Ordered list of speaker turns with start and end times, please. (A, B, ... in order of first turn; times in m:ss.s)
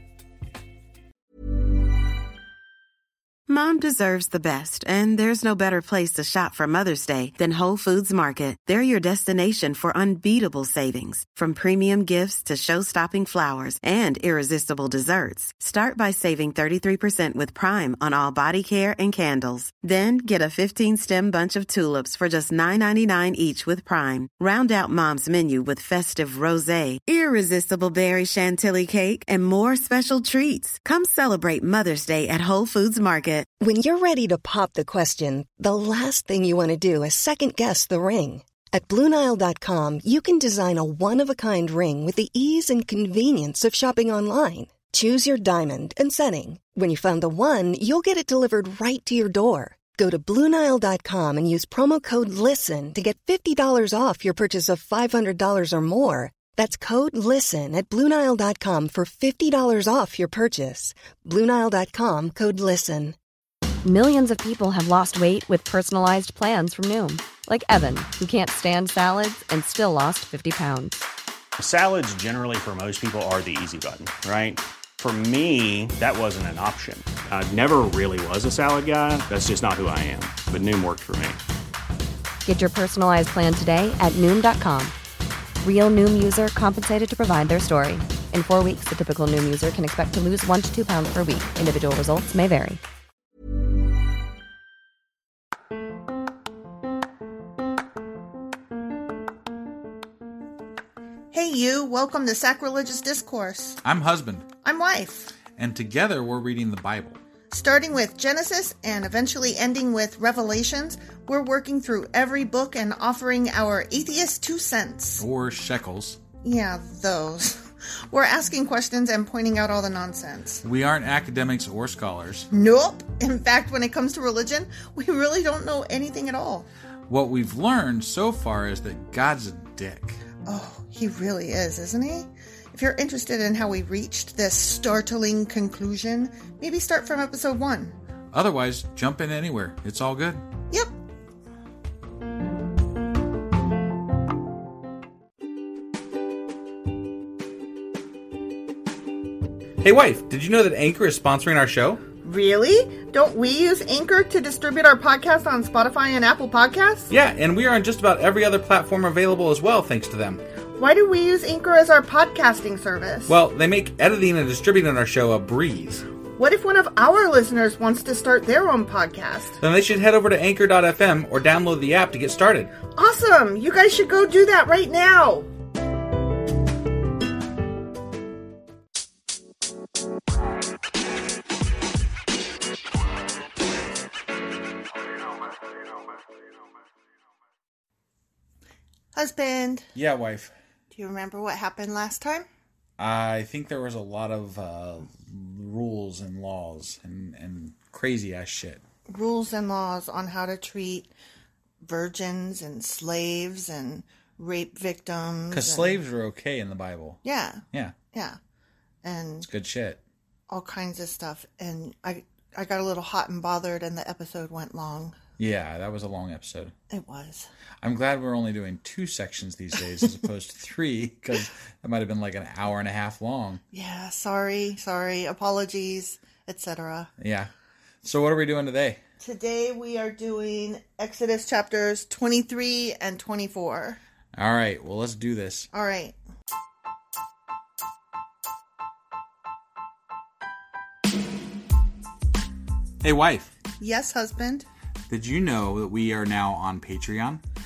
0:03.5-0:33.5 A
0:33.6-1:03.2 B
1:03.8-1:11.0 C
1:11.6-1:21.4 D
1:22.4-1:24.9 C
1:25.6-1:32.8 C
1:41.3-1:43.8 E
1:43.8-1:44.5 F
1:44.6-1:45.4 E
1:45.6-1:47.2 F
1:47.5-1:55.2 E
1:55.2-1:56.2 F
1:56.4-2:00.6 E
2:00.6-2:02.5 F
2:02.5-2:06.7 E
2:07.1-2:10.2 F
2:10.4-2:17.9 E
2:18.3-2:20.4 F
2:29.8-2:32.0 F
2:32.2-2:37.1 E
2:37.1-2:40.4 F
2:40.8-2:43.3 E
2:43.3-2:46.0 F
2:46.4-2:49.6 E
2:49.6-2:52.7 F
2:52.9-2:55.5 E
3:09.1-3:09.9 E
3:09.9-3:10.5 F
3:10.9-3:12.5 E
3:13.0-3:18.8 F
3:19.1-3:21.1 E
3:21.8-3:26.0 E
3:25.5-3:27.2 F
3:27.2-3:28.4 E
3:29.0-3:29.5 E
3:29.4-3:30.0 F
3:30.5-3:35.2 E
3:35.4-3:36.7 F
3:36.9-3:37.5 E
3:37.8-3:43.6 F
3:43.7-3:47.1 E
3:47.2-3:47.5 F
3:48.0-3:49.0 F
3:49.2-3:54.0 E
3:54.3-3:55.7 F
3:55.7-3:56.2 E
4:03.0-4:03.5 F
4:03.8-4:04.6 E
4:05.1-4:07.4 F